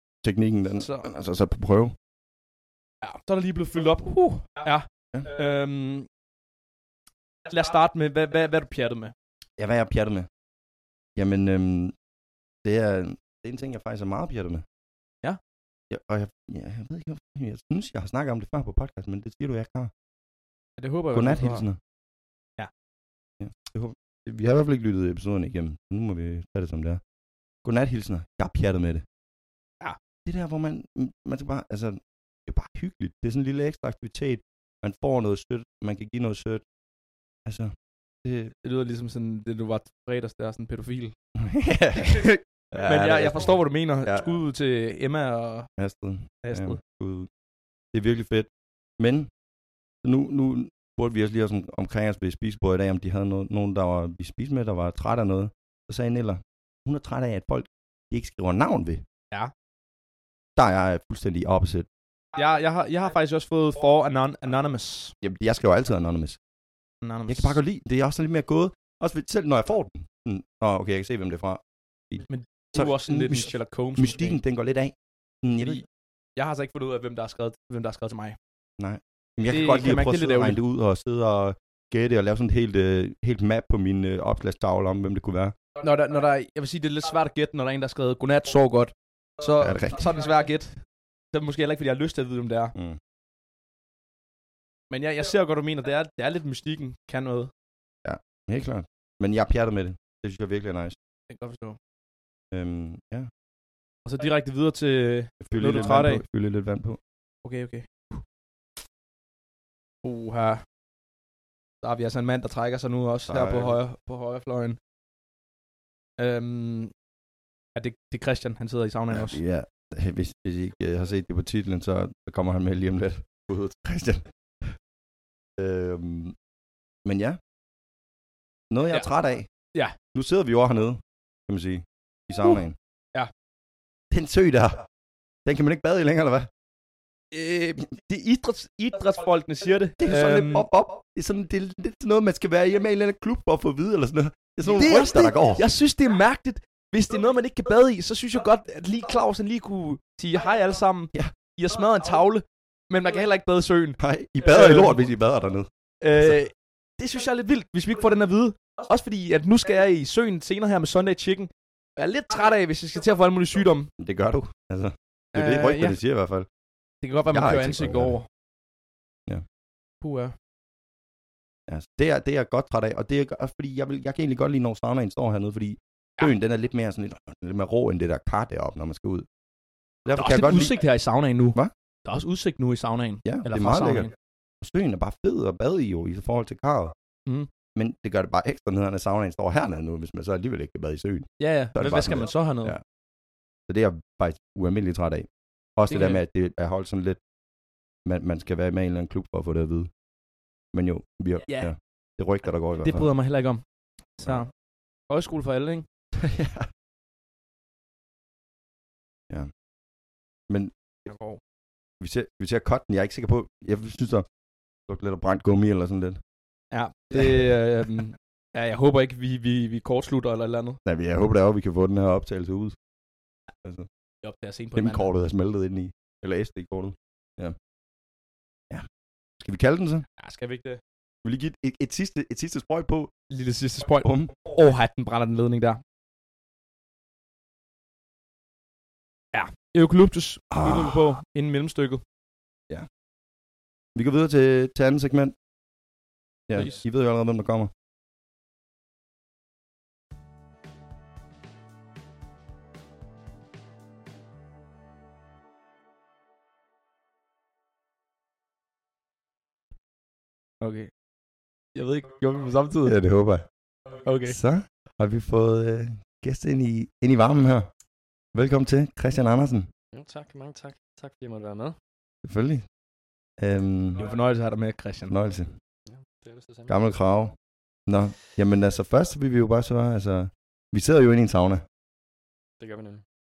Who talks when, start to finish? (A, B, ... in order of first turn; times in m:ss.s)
0:00.2-0:01.9 A
0:00.8-0:01.1 B
0:03.0-0:06.1 B
0:07.4-0:09.1 B
0:09.6-0:10.3 A
0:11.2-0:11.9 A
0:12.6-0:14.6 A
0:15.9-0:19.9 A
0:20.8-0:21.6 B
0:21.1-0:21.8 A
0:23.4-0:27.0 A
0:27.6-0:29.0 A
0:30.2-0:36.6 A
0:37.4-0:37.7 A
0:38.2-0:38.5 A
0:38.6-0:41.1 B
0:41.4-0:43.5 A
0:42.0-0:45.7 B
0:45.8-0:47.3 A
0:46.4-0:46.8 B
0:47.9-0:49.3 A
0:50.0-0:59.0 A
1:00.6-1:01.9 A
1:02.3-1:05.1 B
1:05.2-1:06.4 A
1:07.0-1:07.6 B
1:07.3-1:15.8 A
1:12.3-1:14.4 B
1:16.4-1:18.4 B
1:18.8-1:25.5 A
1:19.5-1:20.6 B
1:25.8-1:30.8 B
1:29.6-1:30.0 A
1:31.3-1:32.7 B
1:34.9-1:37.5 B
1:38.0-1:41.0 A
1:41.3-1:41.8 B
1:42.5-1:43.3 A
1:44.0-1:46.2 B
1:45.4-1:47.0 A
1:47.4-1:48.2 B
1:50.0-1:50.6 B
1:51.8-1:54.8 B
1:53.3-1:53.8 A
1:56.2-1:56.9 B
1:57.7-1:59.4 B
1:59.1-2:04.8 A
2:05.6-2:06.3 A
2:07.0-2:07.4 A
2:08.7-2:09.5 A
2:10.1-2:12.8 A
2:14.1-2:14.8 A
2:15.4-2:16.5 A
2:17.3-2:20.7 B
2:20.0-2:25.7 A
2:24.6-2:35.0 B
2:34.0-2:35.7 A
2:36.0-2:43.9 B
2:44.0-2:46.5 A
2:45.3-2:46.0 B
2:47.0-2:48.3 B
2:47.3-2:48.2 A
2:50.0-2:50.3 B
2:51.7-2:59.2 A
3:00.0-3:00.8 A
3:00.1-3:04.1 B
3:03.2-3:04.1 A
3:04.6-3:06.9 A
3:07.7-3:12.8 A
3:11.4-3:12.8 B
3:13.7-3:17.2 A
3:15.9-3:16.2 B
3:18.0-3:19.9 A
3:20.7-3:23.1 A
3:22.8-3:23.6 B
3:24.2-3:24.5 B
3:25.1-3:25.8 B
3:26.2-3:26.7 A
3:31.0-3:31.4 B
3:32.0-3:34.2 A
3:34.9-3:36.2 A
3:36.7-3:40.8 B
3:40.8-3:42.7 A
3:43.6-3:43.9 A
3:44.2-3:45.1 B
3:44.8-3:47.6 A
3:49.4-3:50.0 A
3:50.2-3:50.8 B
3:51.2-3:53.1 A
3:53.3-3:55.8 B
3:54.0-3:54.3 A
3:59.3-4:02.0 B
4:00.5-4:01.1 A
4:03.9-4:05.3 A
4:06.5-4:07.7 A
4:20.6-4:20.9 B
4:21.7-4:23.0 B
4:22.8-4:23.4 A
4:24.0-4:24.4 B
4:24.2-4:27.7 A
4:28.3-4:29.7 A
4:29.9-4:31.8 C
4:32.2-4:32.6 A
4:33.4-4:34.1 A
4:34.0-4:35.1 B
4:35.1-4:35.5 A
4:35.9-4:36.7 C
4:36.7-4:37.3 A
4:37.9-4:41.6 A
4:42.6-4:43.0 C